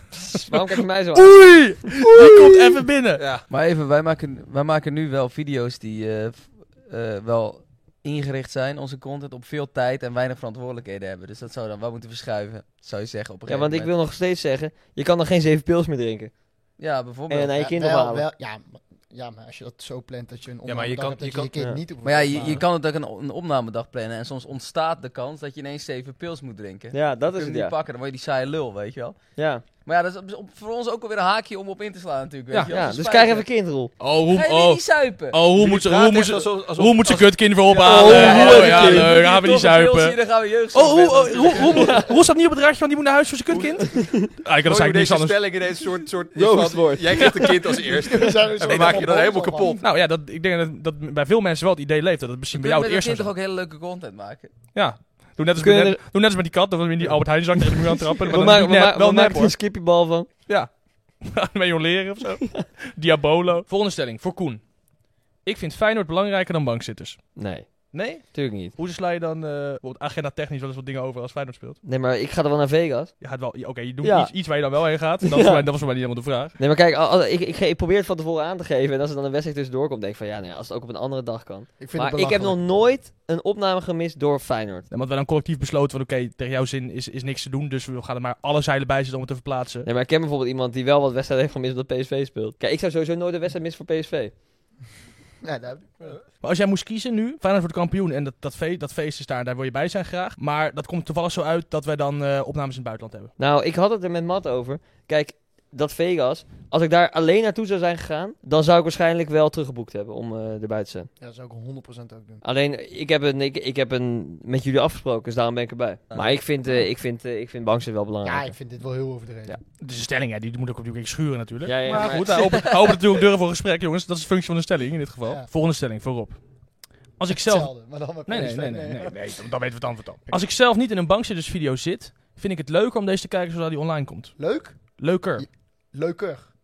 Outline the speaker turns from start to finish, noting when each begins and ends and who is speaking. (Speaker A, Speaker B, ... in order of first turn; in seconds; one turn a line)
Speaker A: 0.1-2.1
Speaker B: 1.1-3.2
Speaker C: 3.1-3.5
Speaker D: 3.5-13.9
Speaker A: 13.5-16.5
Speaker D: 16.8-17.5
Speaker A: 17.3-18.2
Speaker E: 17.6-22.6
Speaker C: 20.6-21.5
Speaker A: 21.6-21.8
Speaker D: 22.0-33.5
Speaker A: 26.9-27.7
Speaker A: 29.4-29.6
Speaker A: 32.7-33.9
Speaker B: 34.0-45.4
Speaker D: 34.3-35.4
Speaker C: 35.5-38.7
Speaker D: 37.7-42.0
Speaker A: 37.8-39.1
Speaker A: 41.7-42.0
Speaker C: 43.5-43.9
Speaker A: 43.9-44.2
Speaker C: 44.6-49.9
Speaker A: 46.3-47.6
Speaker E: 47.9-49.8
Speaker B: 49.8-53.3
Speaker D: 52.5-54.5
Speaker B: 54.7-59.6
Speaker A: 55.6-56.0
Speaker A: 58.2-60.3
Speaker B: 60.5-64.8
Speaker B: 65.4-71.8
Speaker A: 67.4-68.7
Speaker A: 71.8-73.2
Speaker B: 73.2-76.5
Speaker A: 74.0-74.3
Speaker A: 75.2-75.7
Speaker A: 76.6-84.9
Speaker E: 81.8-82.6
Speaker B: 84.9-89.9
Speaker A: 89.8-94.3
Speaker E: 95.4-96.2
Speaker B: 96.4-103.3
Speaker A: 103.4-111.1
Speaker E: 111.2-112.4
Speaker A: 112.4-118.5
Speaker E: 118.2-119.6
Speaker B: 119.8-135.5
Speaker A: 121.6-122.7
Speaker E: 127.3-129.3
Speaker E: 134.4-136.5